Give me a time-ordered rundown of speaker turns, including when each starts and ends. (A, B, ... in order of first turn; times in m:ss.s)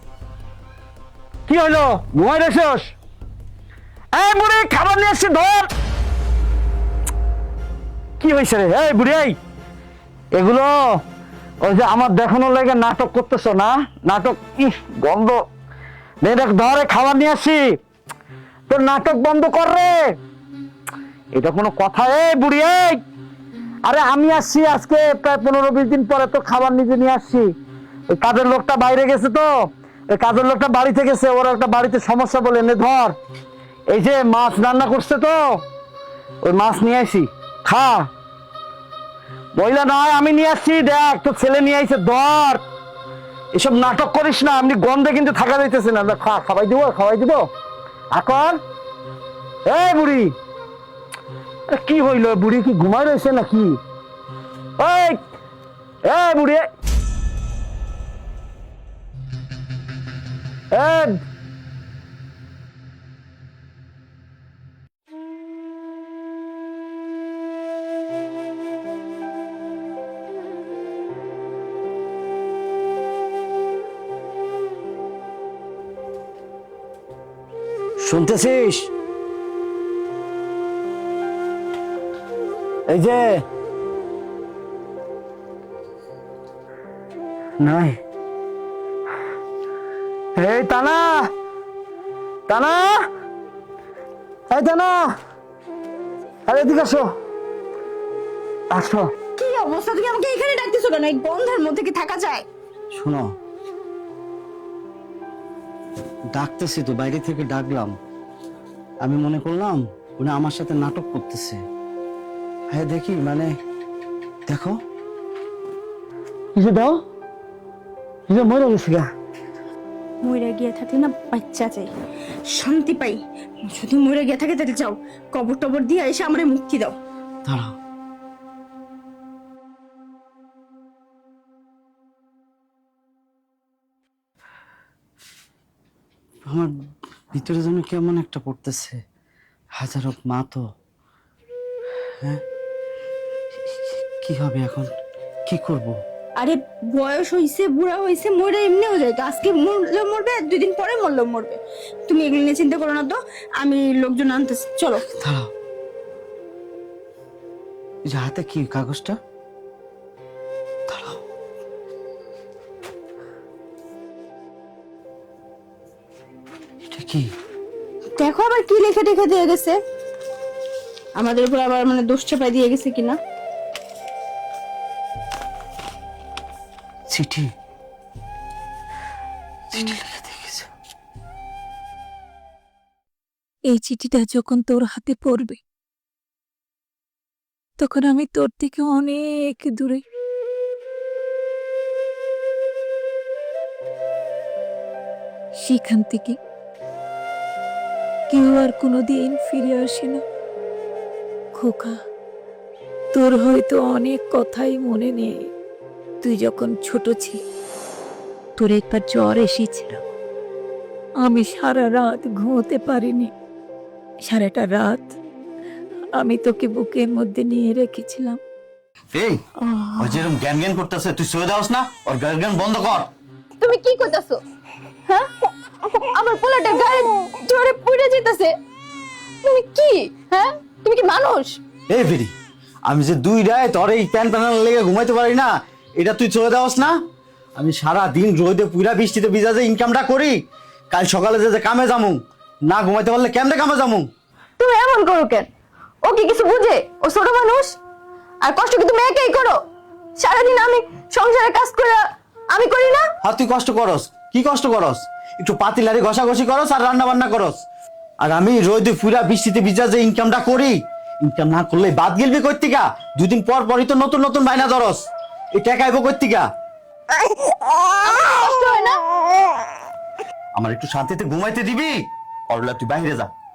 0:01.5-0:02.9 A
0:04.1-0:05.7 A
0:08.2-0:09.4 A
0:10.3-0:11.0 A
0:11.6-0:15.4 A
0:16.2-0:17.8 A
0:18.7-0:20.1 A
0:21.3-0:23.0 A
0:23.8-0:27.5 A
0:28.1-0:33.2 A
0:33.9-0:35.6 A
0:36.4-0:38.1 A
0:39.5-0:42.6 A
0:43.5-0:47.5 A
0:48.1-0:48.6 A
0:49.6-0:50.3 A
0:51.7-0:53.8 A
0:54.8-0:55.2 A
0:56.0-0:56.7 A
1:00.7-1:01.2 A
1:18.0-1:18.9 A
1:22.9-1:23.4 A
1:27.6-1:28.0 A
1:30.4-1:31.3 A
1:32.5-1:33.0 A
1:34.5-1:35.1 A
1:36.5-1:37.1 A
1:38.7-1:39.1 A
1:39.4-1:42.4 B
1:42.9-1:43.2 A
1:46.3-1:47.9 A
1:49.0-1:51.6 A
1:52.7-1:53.4 A
1:56.5-1:57.0 A
1:58.3-1:59.1 A
2:00.2-2:01.9 B
2:02.5-2:07.0 B
2:17.3-2:18.9 A
2:19.8-2:20.6 A
2:24.2-2:24.8 A
2:25.5-2:25.9 A
2:26.4-2:35.0 B
2:38.1-2:39.1 A
2:46.9-2:47.2 A
2:48.2-2:49.8 B
2:51.2-2:53.2 B
2:57.1-2:57.4 A
2:59.8-3:00.6 A
3:03.7-3:05.6 C
3:07.8-3:10.0 C
3:15.6-3:16.4 C
3:18.3-3:20.2 C
3:21.6-3:22.0 C
3:23.1-3:25.5 C
3:26.2-3:27.4 C
3:28.6-3:30.0 C
3:31.2-3:33.3 C
3:34.3-3:35.1 C
3:36.2-3:38.4 C
3:39.1-3:39.4 D
3:40.0-3:43.1 D
3:43.6-3:44.4 B
3:46.1-3:48.5 B
3:49.4-3:51.6 B
3:51.9-3:52.3 D
3:52.9-3:56.9 D
3:57.6-4:00.4 D
4:00.9-4:04.0 D
4:04.6-4:05.5 B
4:06.0-4:07.8 B
4:08.4-4:09.6 B
4:10.2-4:13.1 B
4:13.2-4:17.6 D
4:18.2-4:26.4 D
4:28.0-4:29.0 B
4:30.6-4:32.0 D
4:32.5-4:33.3 D